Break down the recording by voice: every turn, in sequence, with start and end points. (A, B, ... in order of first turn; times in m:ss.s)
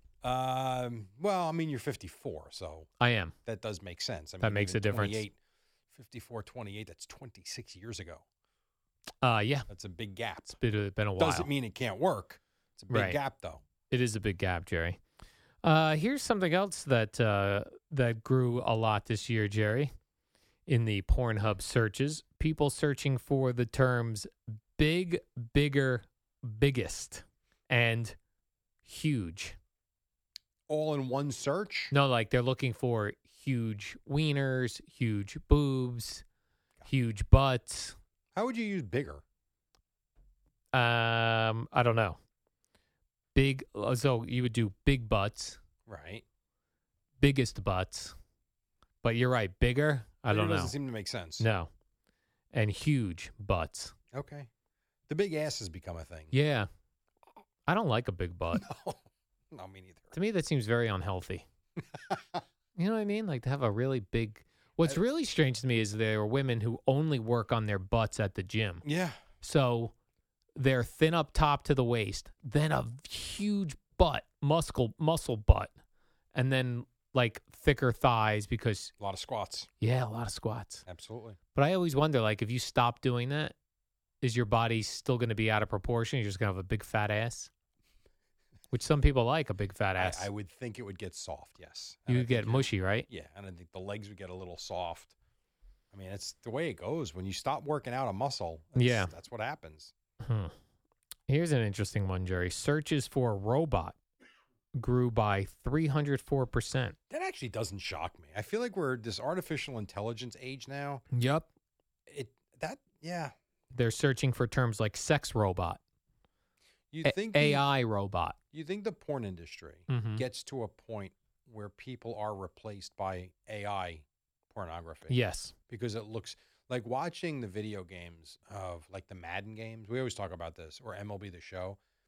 0:00.2-0:02.9 A
0:03.0-0:03.3 B
0:03.5-0:05.4 A
0:04.4-0:05.2 B
0:05.9-0:08.2 A
0:09.2-0:09.7 B
0:09.7-0:10.6 A
0:10.6-0:11.5 B
0:11.2-0:13.6 A
0:12.9-0:13.2 B
0:13.9-0:15.0 B
0:15.6-0:19.9 B
0:20.7-0:28.2 B
0:28.8-0:29.6 B
0:30.7-0:31.9 A
0:31.9-0:36.2 B
0:36.8-0:38.0 B
0:38.4-0:39.2 A
0:40.7-0:42.2 B
0:43.4-0:45.6 B
0:45.9-0:46.2 A
0:47.2-0:48.1 B
0:49.0-0:50.8 B
0:50.3-0:51.5 A
0:51.4-0:51.7 B
0:52.5-0:53.9 B
0:54.1-0:54.5 A
0:55.1-0:56.3 A
0:56.3-0:56.7 B
0:57.7-0:58.6 B
0:58.5-1:00.2 A
1:00.1-1:01.5 B
1:01.9-1:02.4 A
1:02.8-1:08.8 B
1:08.8-1:09.2 A
1:09.4-1:09.9 B
1:10.6-1:15.7 B
1:16.4-1:18.9 B
1:19.0-1:19.7 A
1:19.8-1:20.8 B
1:20.9-1:21.4 A
1:21.5-1:23.6 B
1:24.2-1:27.5 B
1:28.7-1:30.3 B
1:30.0-1:35.1 A
1:32.1-1:33.1 B
1:35.9-1:39.9 A
1:38.8-1:39.1 B
1:40.2-1:40.5 B
1:41.3-1:44.0 B
1:44.8-1:47.0 B
1:47.1-1:51.0 A
1:51.1-1:51.5 B
1:52.1-1:53.3 A
1:53.7-1:55.8 B
1:56.9-1:57.6 A
1:57.0-1:58.4 B
1:58.5-2:05.2 A
1:59.9-2:00.2 B
2:05.1-2:05.6 B
2:05.7-2:11.8 A